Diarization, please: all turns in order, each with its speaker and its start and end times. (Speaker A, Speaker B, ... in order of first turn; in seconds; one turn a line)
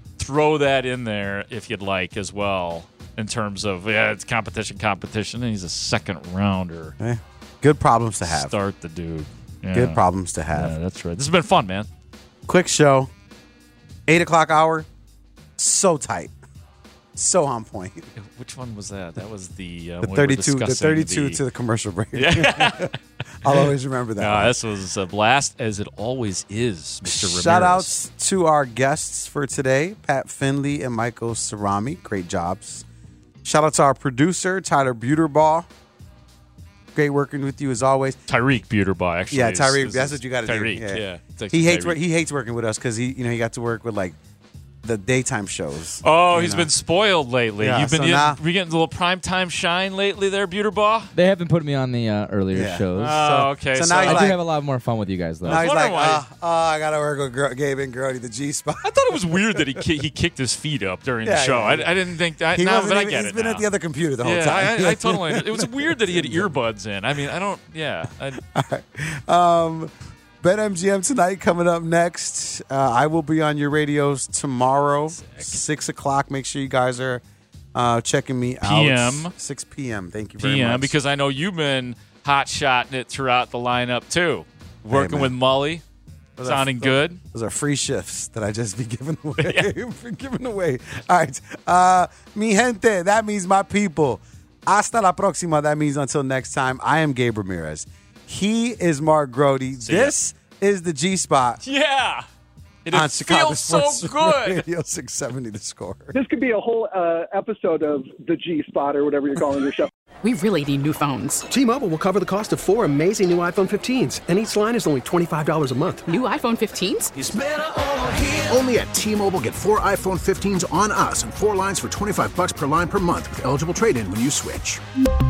Speaker A: 0.2-7.0
Speaker B: 7.0-8.6
Speaker A: 8.2-10.0
Speaker B: 9.7-10.8
Speaker A: 10.5-11.9
Speaker B: 12.5-13.1
Speaker B: 14.1-14.9
Speaker B: 15.6-16.3
Speaker B: 17.1-18.1
Speaker A: 18.2-21.4
Speaker B: 20.0-24.5
Speaker A: 22.1-27.9
Speaker B: 27.1-32.9
Speaker B: 33.4-35.7
Speaker B: 37.0-38.2
Speaker A: 38.3-42.0
Speaker B: 39.3-44.2
Speaker B: 44.8-46.7
Speaker A: 46.0-51.1
Speaker B: 47.6-48.4
Speaker C: 51.1-53.2
Speaker B: 52.5-54.4
Speaker A: 53.0-54.4
Speaker C: 54.1-55.7
Speaker A: 55.4-56.2
Speaker B: 55.4-59.8
Speaker A: 58.8-63.7
Speaker B: 61.2-62.0
Speaker B: 62.5-66.5
Speaker A: 64.2-68.4
Speaker B: 68.4-77.2
Speaker A: 75.1-75.6
Speaker B: 77.7-81.0
Speaker A: 78.6-79.3
Speaker A: 80.4-85.8
Speaker B: 84.9-85.3
Speaker B: 86.4-101.6
Speaker A: 86.4-87.2
Speaker A: 89.4-89.7
Speaker A: 99.8-100.2
Speaker A: 101.6-102.3
Speaker A: 102.9-104.6
Speaker B: 102.9-106.2
Speaker D: 106.1-109.9
Speaker E: 110.2-111.4
Speaker F: 111.5-116.1
Speaker E: 116.1-117.1
Speaker G: 117.1-124.8